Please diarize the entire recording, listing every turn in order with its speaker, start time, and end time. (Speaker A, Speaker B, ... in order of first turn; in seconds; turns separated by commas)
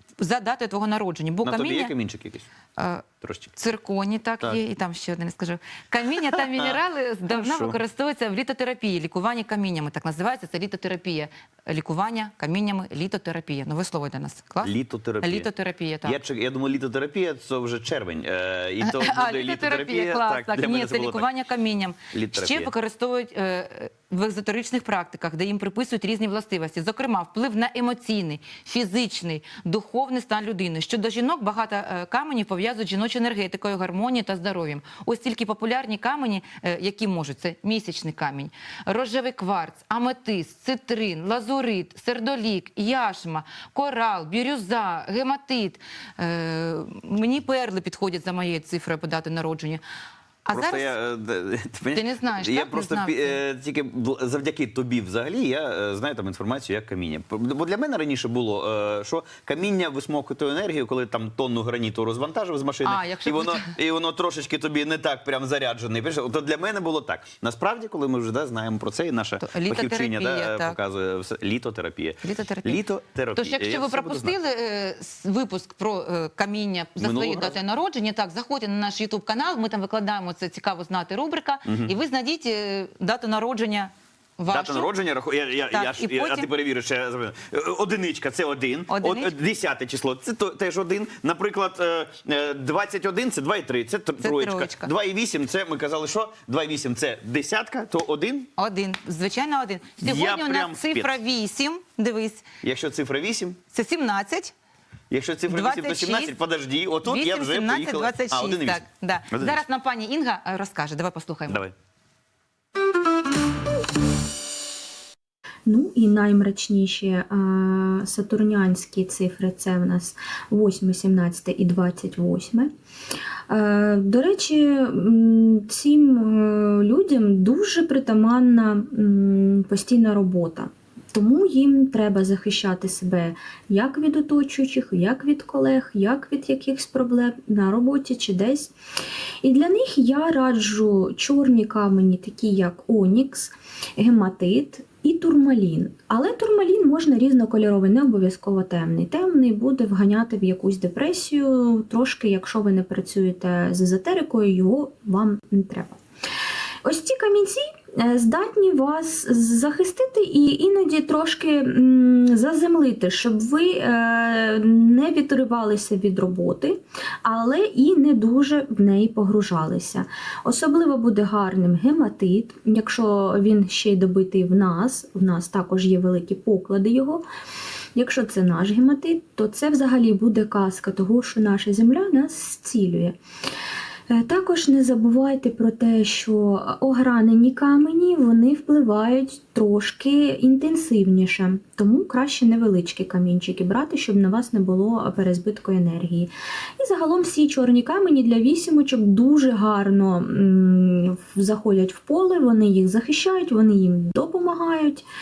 Speaker A: 0.2-1.9, Speaker B: 1.4-2.5, Speaker A: 2.8-16.2, Speaker B: 3.2-3.5, Speaker B: 6.3-6.8, Speaker B: 7.3-7.8, Speaker B: 14.6-15.5, Speaker B: 16.1-21.3, Speaker A: 18.8-49.8, Speaker B: 22.1-22.7, Speaker A: 50.5-51.0, Speaker B: 50.5-74.3, Speaker A: 51.9-53.4, Speaker A: 62.8-63.8, Speaker A: 69.4-70.8, Speaker A: 72.2-72.8, Speaker A: 73.3-84.9, Speaker B: 77.0-77.6, Speaker B: 81.7-81.9, Speaker B: 84.5-98.5, Speaker A: 85.7-86.5, Speaker A: 88.9-89.3, Speaker A: 94.2-94.9, Speaker A: 98.6-102.4, Speaker B: 100.0-101.2, Speaker B: 102.6-103.6, Speaker A: 103.7-104.5, Speaker B: 105.1-109.6, Speaker A: 105.5-106.4, Speaker A: 107.0-111.7, Speaker C: 115.7-122.7, Speaker C: 123.5-138.7, Speaker C: 139.4-156.0, Speaker C: 156.8-177.2, Speaker C: 178.0-183.2, Speaker C: 184.1-205.1